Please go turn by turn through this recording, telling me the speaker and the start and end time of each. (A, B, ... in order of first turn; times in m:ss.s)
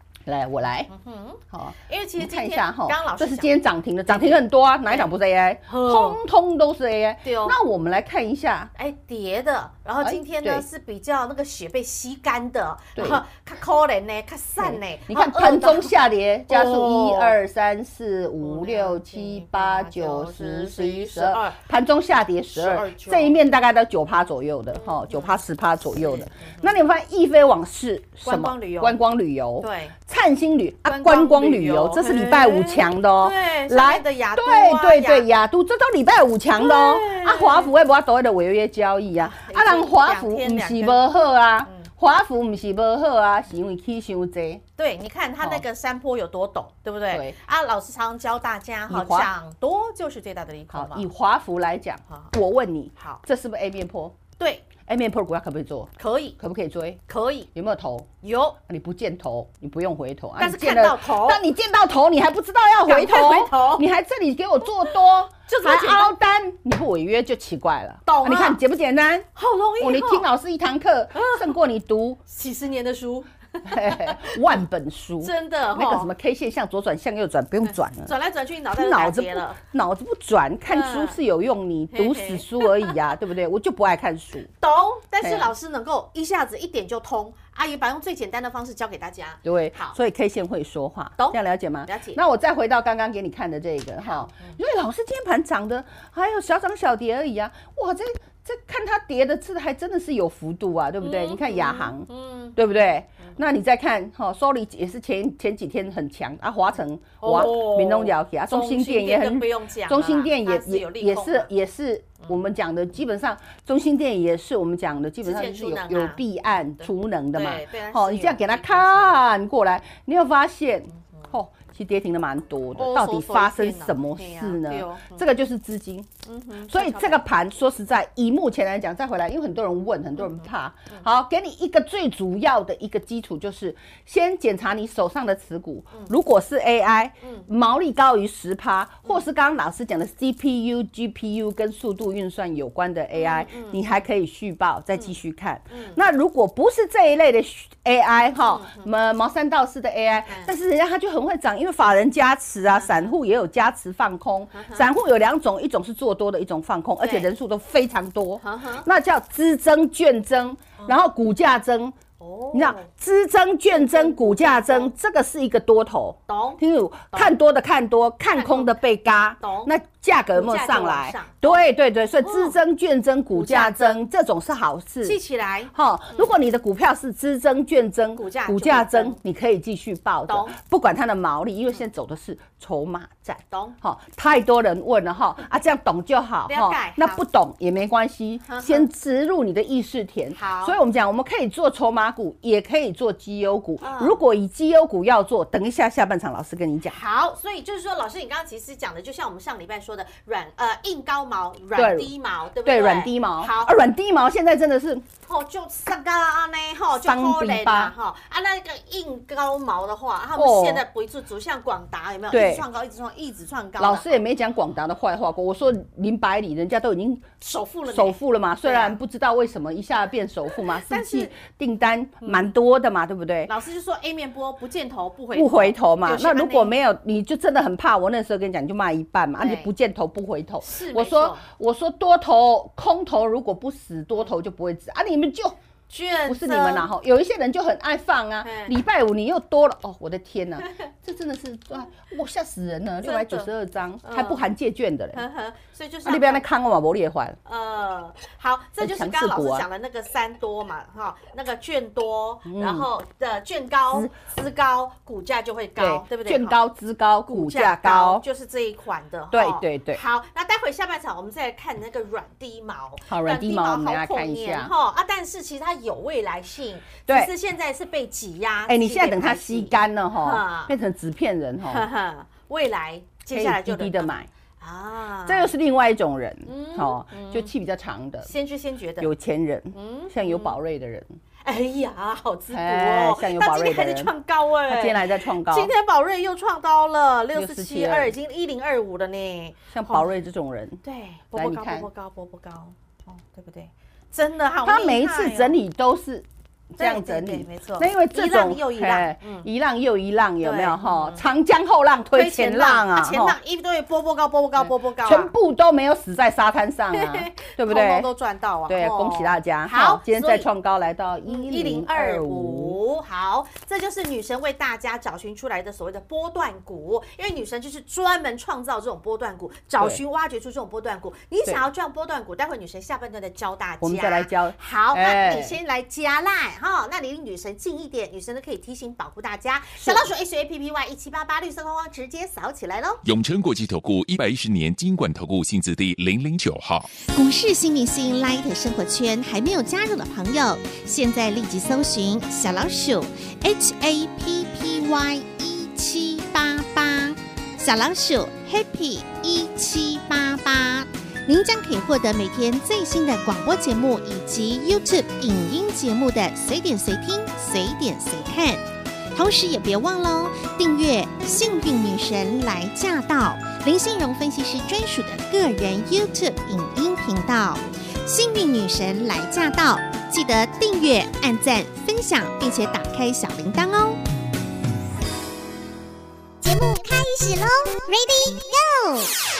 0:00.2-0:00.9 A
0:00.9-0:03.6 B
0:01.5-0:08.7 A
0:04.1-0:05.1 B
0:05.7-0:06.2 B
0:07.2-0:07.6 B
0:08.8-0:17.4 B
0:10.0-0:10.6 A
0:13.0-0:13.2 A
0:14.6-0:44.6 A
0:18.4-0:21.6 B
0:22.5-0:23.4 B
0:24.7-0:25.4 B
0:26.0-0:26.7 B
0:28.2-0:29.0 B
0:29.6-0:29.9 B
0:30.8-0:35.3 B
0:36.5-0:37.7 B
0:39.2-0:41.0 B
0:44.8-0:51.1 B
0:47.1-0:47.4 A
0:48.9-0:49.3 A
0:50.7-0:54.2 A
0:53.0-0:53.2 B
0:54.4-0:54.6 B
0:54.8-0:57.0 A
0:56.0-0:56.4 B
0:57.1-0:57.5 B
0:57.5-0:58.1 A
0:58.2-0:58.6 B
0:58.6-1:09.3 A
1:00.4-1:01.4 B
1:02.8-1:03.8 B
1:05.5-1:06.1 B
1:08.0-1:08.6 B
1:09.3-1:10.3 B
1:09.8-1:12.2 A
1:11.1-1:11.5 B
1:12.3-1:14.5 B
1:13.6-1:18.1 A
1:15.2-1:16.1 B
1:18.0-1:19.6 B
1:18.7-1:24.5 A
1:20.7-1:21.2 B
1:21.9-1:23.0 B
1:24.6-1:30.0 B
1:25.2-1:25.5 A
1:29.4-2:06.1 A
1:31.2-1:32.2 B
1:34.0-1:34.5 B
1:41.0-1:42.6 B
1:47.2-1:51.5 B
1:55.2-1:56.2 B
1:56.8-1:59.2 B
2:02.8-2:05.2 B
2:06.2-2:07.2 B
2:06.7-2:42.0 A
2:10.2-2:11.0 B
2:17.2-2:17.5 B
2:23.1-2:24.0 B
2:25.7-2:26.0 B
2:28.4-2:28.8 B
2:32.7-2:33.1 B
2:34.5-2:34.9 B
2:37.0-2:37.3 B
2:38.4-2:38.9 B
2:42.2-2:42.9 B
2:42.5-2:55.2 A
2:43.7-2:44.9 B
2:46.3-2:46.6 B
2:48.3-2:48.7 B
2:49.4-2:49.7 B
2:50.3-2:51.6 B
2:52.2-2:52.6 B
2:53.3-2:54.0 B
2:55.0-2:56.3 B
2:55.7-3:17.0 A
2:58.1-2:59.2 B
3:00.3-3:00.6 B
3:03.5-3:03.8 B
3:06.5-3:07.2 B
3:08.5-3:08.9 B
3:10.3-3:10.8 B
3:13.8-3:14.2 B
3:16.9-3:23.8 B
3:21.7-3:22.1 A
3:22.6-3:25.0 A
3:25.2-3:34.2 B
3:27.0-3:27.9 A
3:30.4-3:30.8 A
3:32.3-3:32.6 A
3:33.8-3:37.2 A
3:37.4-3:39.0 B
3:37.9-3:43.5 A
3:40.8-3:41.4 B
3:42.2-3:42.5 B
3:43.5-3:46.8 B
3:45.3-3:55.6 A
3:49.4-3:49.7 B
3:50.6-3:51.4 B
3:55.9-3:56.9 B
3:56.2-4:05.2 A
3:58.4-3:58.7 B
4:03.0-4:03.5 B
4:04.0-4:04.4 B
4:05.1-4:06.4 B
4:06.0-4:07.4 A
4:07.4-4:16.6 B
4:08.8-4:09.7 A
4:12.4-4:12.9 A
4:15.8-4:18.2 A
4:17.3-4:30.7 B
4:19.3-4:20.0 A
4:23.1-4:24.7 A
4:28.6-4:31.8 A
4:31.6-4:35.5 B
4:33.3-4:34.3 A
4:35.2-4:38.3 A
4:36.4-4:37.5 B
4:38.2-4:39.1 B
4:39.0-4:41.2 A
4:39.7-4:40.6 B
4:41.4-4:50.2 B
4:42.5-4:44.1 A
4:44.6-4:45.7 A
4:47.3-4:48.1 A
4:49.7-4:50.8 A
4:50.8-4:55.6 B
4:51.3-4:51.9 A
4:54.6-5:03.4 A
4:56.8-4:59.5 B
5:00.4-5:01.2 B
5:02.1-5:05.3 B
5:04.6-5:08.1 A
5:06.9-5:10.5 B
5:08.7-5:12.8 A
5:11.3-5:33.0 B
5:23.8-5:25.6 A
5:29.8-5:30.1 A
5:33.0-5:36.9 C
5:37.0-5:58.6 D
5:59.1-6:14.0 D
6:16.4-6:19.1 D